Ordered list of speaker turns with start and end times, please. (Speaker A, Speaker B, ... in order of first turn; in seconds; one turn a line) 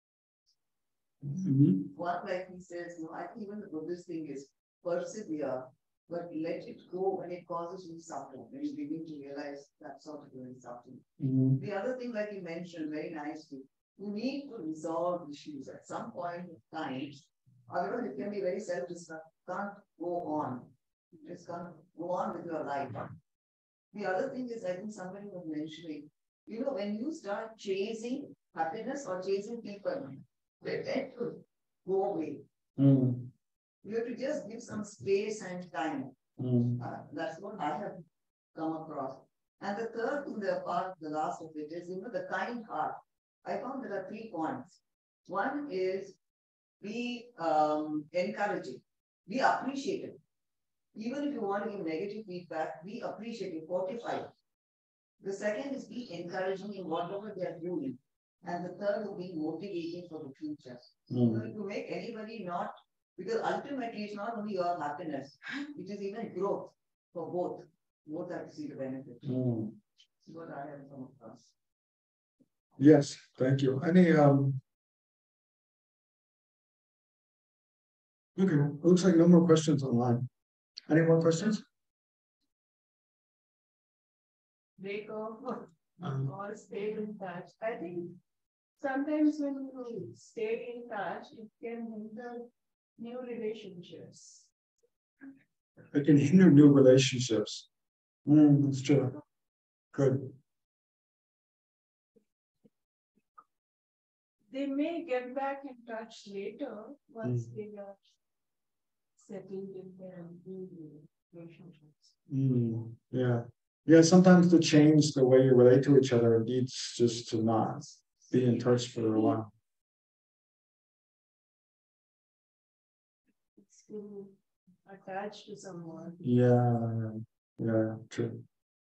Speaker A: 1.2-1.9
Speaker B: 1.9-11.1
Speaker A: 11.2-11.6
Speaker B: 11.6-23.1
Speaker B: 23.9-32.4
Speaker A: 32.8-33.3
Speaker B: 33.8-36.1
Speaker A: 36.4-36.8
Speaker B: 36.8-38.0
Speaker B: 38.5-46.2
Speaker B: 46.8-50.2
Speaker B: 50.9-54.3
Speaker B: 55.2-69.4
Speaker A: 61.1-61.5
Speaker A: 69.2-69.8
Speaker B: 70.2-71.5
Speaker A: 72.8-74.6
Speaker A: 78.4-80.3
Speaker A: 80.9-81.6
Speaker C: 84.8-88.2
Speaker A: 86.0-86.3
Speaker C: 88.8-94.5
Speaker A: 95.9-97.7
Speaker A: 98.3-99.2
Speaker A: 99.9-100.3
Speaker C: 104.5-108.0
Speaker A: 107.2-107.5
Speaker C: 109.2-112.1
Speaker A: 112.3-119.5
Speaker C: 123.6-126.2
Speaker A: 126.2-128.4